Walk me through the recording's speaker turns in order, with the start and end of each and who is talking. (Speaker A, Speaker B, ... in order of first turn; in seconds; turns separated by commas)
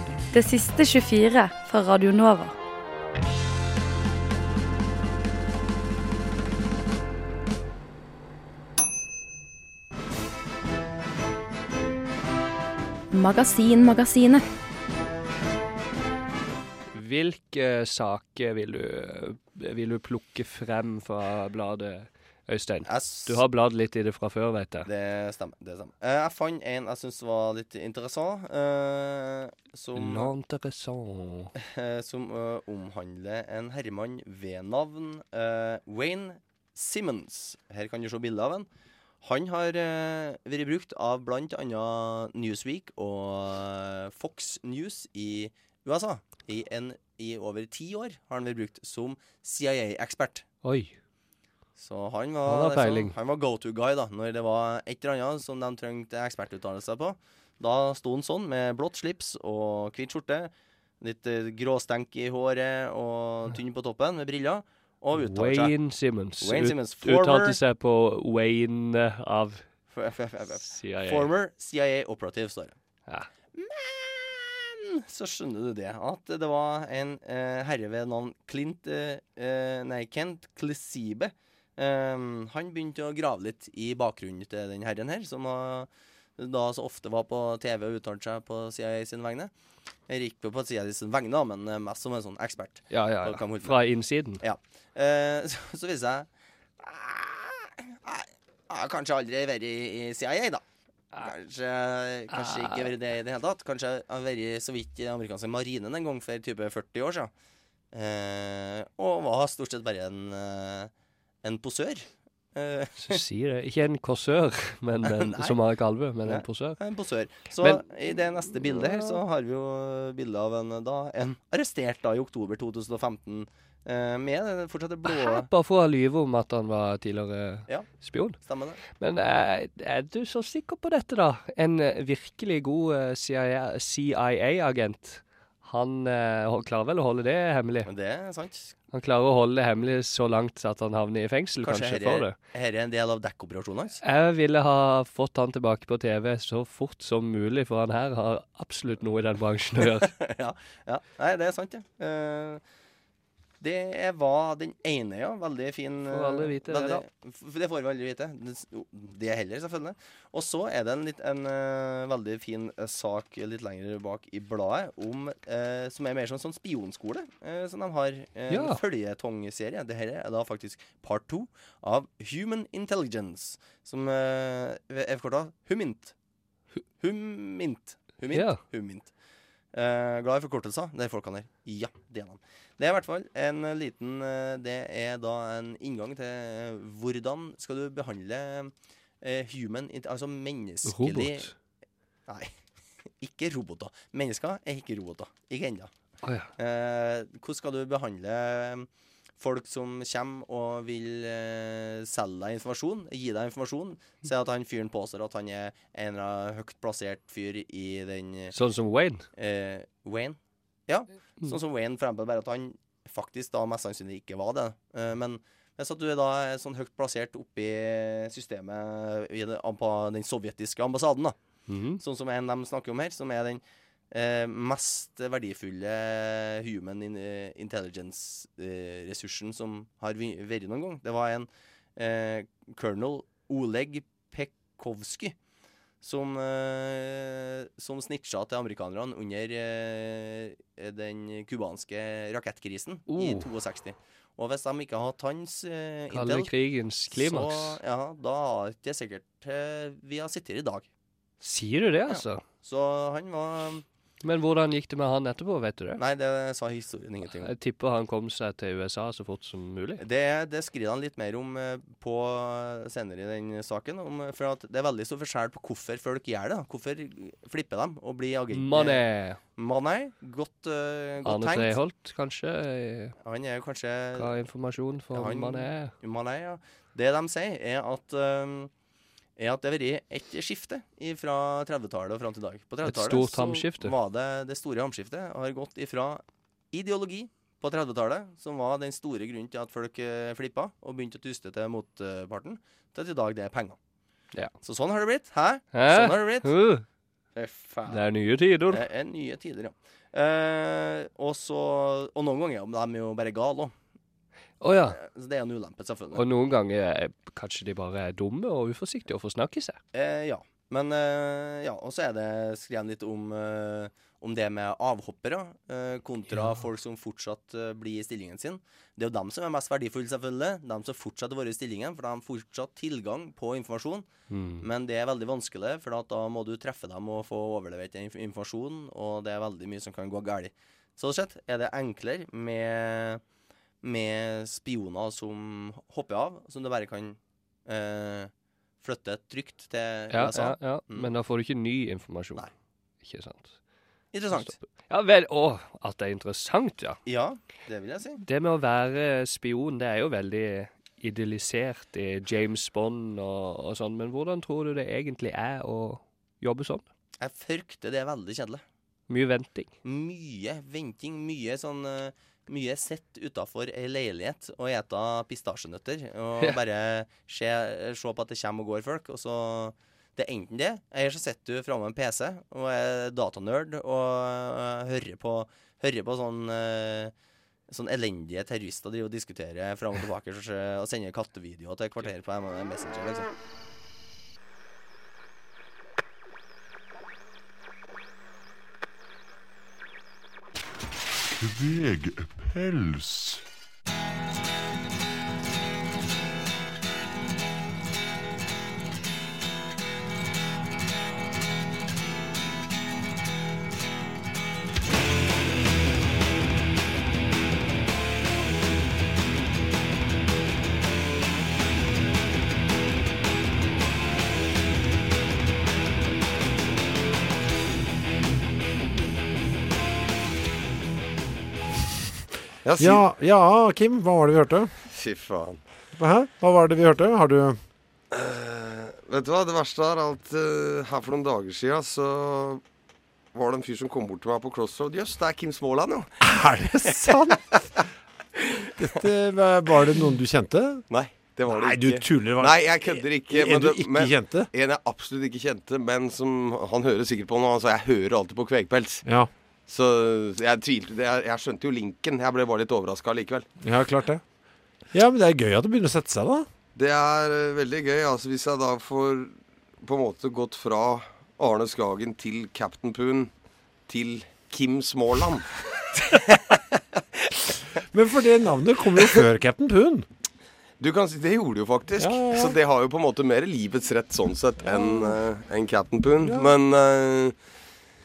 Speaker A: 0.3-2.5, Speaker A: 13.1-14.4, Speaker B: 16.9-24.9, Speaker C: 22.8-23.4, Speaker C: 24.8-30.3, Speaker B: 29.9-31.5, Speaker C: 31.6-38.7, Speaker C: 39.2-50.5, Speaker B: 50.6-50.9, Speaker C: 51.8-65.7, Speaker B: 52.4-53.1, Speaker B: 65.1-69.6, Speaker C: 66.4-67.6, Speaker C: 69.9-72.7, Speaker B: 70.7-71.3, Speaker C: 73.5-89.5, Speaker C: 90.1-93.8, Speaker B: 92.9-94.4, Speaker C: 94.4-96.3, Speaker C: 96.8-100.6, Speaker C: 101.1-107.3, Speaker B: 102.3-102.9, Speaker C: 107.9-110.9, Speaker C: 111.4-113.2, Speaker B: 113.0-116.9, Speaker C: 115.1-115.6, Speaker C: 116.2-125.5, Speaker B: 117.6-117.8, Speaker B: 118.6-119.2, Speaker B: 125.0-128.4, Speaker C: 127.7-128.8, Speaker B: 128.9-137.9, Speaker C: 137.8-138.7, Speaker B: 138.9-142.3, Speaker C: 141.6-144.0, Speaker B: 144.0-150.1, Speaker C: 149.8-152.6, Speaker C: 153.6-176.1, Speaker B: 156.1-157.0, Speaker B: 168.5-168.8, Speaker C: 177.0-179.1, Speaker B: 178.3-178.6, Speaker C: 179.7-191.5, Speaker B: 190.8-191.5, Speaker C: 193.2-195.9, Speaker B: 196.2-196.5, Speaker C: 196.6-198.9, Speaker C: 199.4-208.6, Speaker B: 208.5-209.2, Speaker C: 209.3-221.3, Speaker B: 221.7-222.0, Speaker C: 221.9-235.3, Speaker C: 236.0-246.5, Speaker B: 243.1-243.5, Speaker B: 246.1-247.8, Speaker C: 247.1-250.9, Speaker B: 251.4-252.4, Speaker C: 252.1-253.8, Speaker B: 254.2-256.0, Speaker C: 256.0-257.5, Speaker B: 257.3-260.0, Speaker C: 260.0-271.8, Speaker B: 268.5-269.4, Speaker B: 271.2-273.1, Speaker C: 273.2-274.3, Speaker B: 274.1-275.9, Speaker C: 275.1-278.7, Speaker C: 279.4-293.8, Speaker B: 282.8-283.9, Speaker C: 294.6-296.5, Speaker B: 295.7-296.8, Speaker C: 297.3-298.1, Speaker B: 297.9-298.8, Speaker C: 298.7-303.7, Speaker B: 304.6-305.0, Speaker C: 304.9-306.2, Speaker B: 306.1-309.8, Speaker C: 309.9-324.1, Speaker B: 324.3-324.6, Speaker C: 324.6-333.2, Speaker C: 333.8-341.1, Speaker B: 340.1-342.5, Speaker B: 343.0-343.6, Speaker C: 344.1-344.5, Speaker B: 344.3-347.0, Speaker C: 347.1-348.2, Speaker B: 348.2-356.8, Speaker C: 357.2-358.6, Speaker B: 359.1-359.7, Speaker C: 359.8-377.1, Speaker C: 377.7-383.3, Speaker D: 391.4-393.4, Speaker E: 422.6-423.0, Speaker F: 422.8-424.7, Speaker E: 424.9-425.6, Speaker F: 425.9-427.6, Speaker E: 428.1-432.6, Speaker E: 433.3-436.1, Speaker F: 436.2-437.8, Speaker F: 438.8-440.9, Speaker E: 440.9-449.1, Speaker F: 441.5-444.5, Speaker F: 449.0-449.3, Speaker E: 449.7-453.5, Speaker F: 453.6-454.2, Speaker F: 454.9-456.5, Speaker E: 456.8-463.3, Speaker E: 463.9-465.5, Speaker F: 467.9-470.1, Speaker E: 470.8-477.3, Speaker F: 472.0-472.6, Speaker F: 474.6-475.2, Speaker F: 476.2-476.5